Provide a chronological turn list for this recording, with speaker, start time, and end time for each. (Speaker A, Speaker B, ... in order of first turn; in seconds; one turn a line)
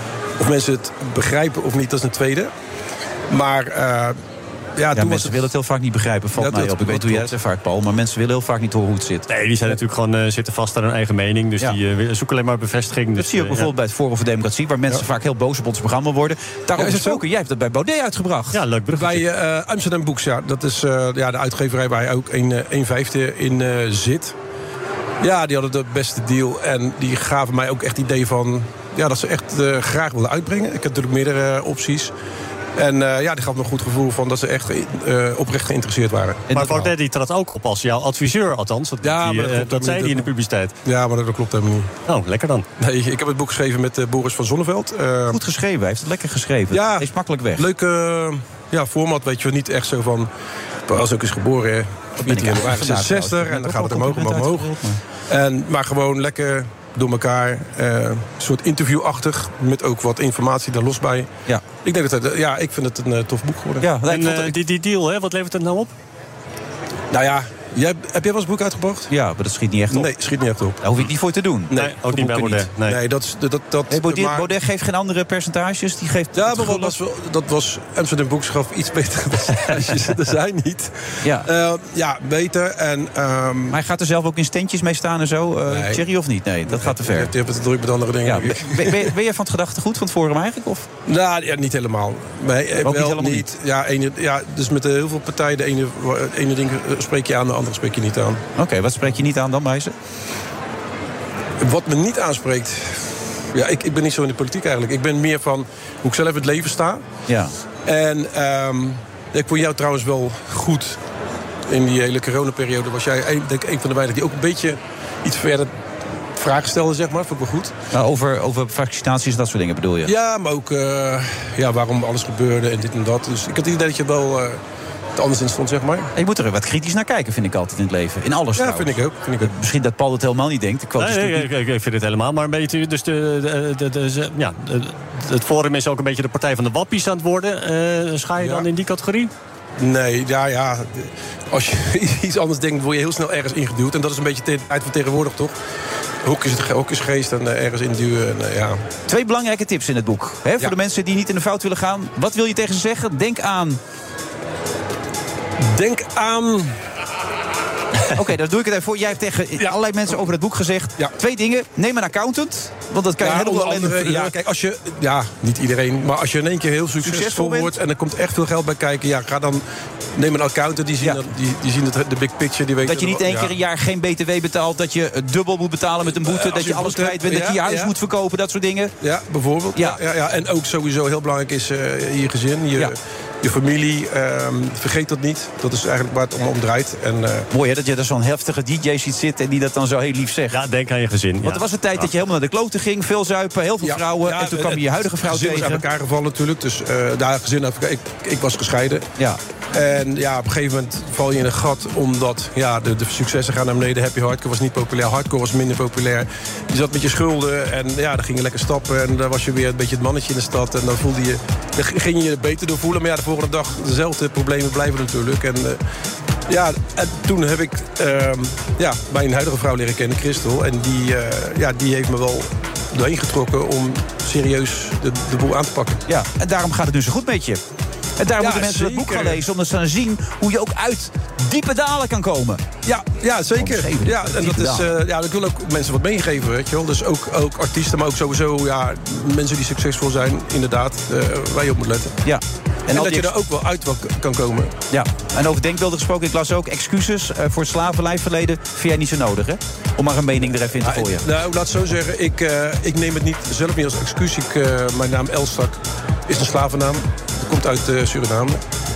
Speaker A: 0.4-2.5
Speaker A: 3.3-4.2
Speaker A: 4.8-5.5
Speaker B: 4.9-9.3
Speaker A: 6.4-7.3
Speaker C: 9.3-13.7
Speaker B: 13.2-18.6
Speaker A: 16.7-17.2
Speaker C: 18.5-19.2
Speaker A: 18.9-24.4
Speaker A: 25.2-32.1
Speaker A: 32.8-36.5
Speaker B: 36.5-36.9
Speaker C: 36.5-40.8
Speaker A: 39.0-40.3
Speaker A: 40.9-41.9
Speaker C: 42.1-42.7
Speaker A: 42.8-45.4
Speaker B: 45.3-47.7
Speaker A: 46.7-50.3
Speaker A: 50.9-54.7
Speaker B: 52.2-55.0
Speaker A: 55.3-63.9
Speaker B: 63.8-64.6
Speaker C: 64.1-65.9
Speaker A: 67.1-69.1
Speaker B: 69.1-70.1
Speaker A: 69.9-70.8
Speaker B: 70.8-72.7
Speaker C: 71.7-73.0
Speaker A: 72.8-74.5
Speaker B: 73.9-77.0
Speaker A: 76.3-83.8
Speaker B: 81.2-81.5
Speaker B: 83.7-87.3
Speaker A: 85.7-86.0
Speaker A: 86.7-89.1
Speaker B: 88.2-90.9
Speaker A: 91.1-98.4
Speaker B: 92.8-93.5
Speaker B: 98.6-99.9
Speaker A: 101.6-103.0
Speaker A: 103.5-107.0
Speaker B: 107.3-107.5
Speaker A: 107.8-111.0
Speaker A: 111.7-115.7
Speaker A: 116.4-117.8
Speaker B: 117.9-120.1
Speaker A: 120.0-124.6
Speaker A: 125.2-126.1
Speaker B: 126.1-131.5
Speaker A: 128.6-129.5
Speaker C: 131.0-139.3
Speaker A: 138.4-138.7
Speaker A: 139.8-145.6
Speaker A: 146.2-148.8
Speaker B: 149.1-153.8
Speaker A: 155.6-156.8
Speaker B: 158.1-164.3
Speaker A: 163.2-169.6
Speaker B: 167.0-167.8
Speaker A: 170.2-173.6
Speaker B: 172.8-179.0
Speaker A: 176.1-177.9
Speaker A: 179.0-187.5
Speaker B: 187.5-190.6
Speaker C: 190.5-192.1
Speaker B: 191.4-195.8
Speaker A: 193.8-199.1
Speaker A: 199.7-215.8
Speaker A: 216.5-226.0
Speaker B: 226.1-227.6
Speaker B: 228.2-232.7
Speaker A: 228.4-229.4
Speaker A: 232.8-242.2
Speaker B: 233.6-235.0
Speaker B: 242.2-243.3
Speaker A: 242.9-244.8
Speaker B: 244.9-251.3
Speaker A: 250.4-258.6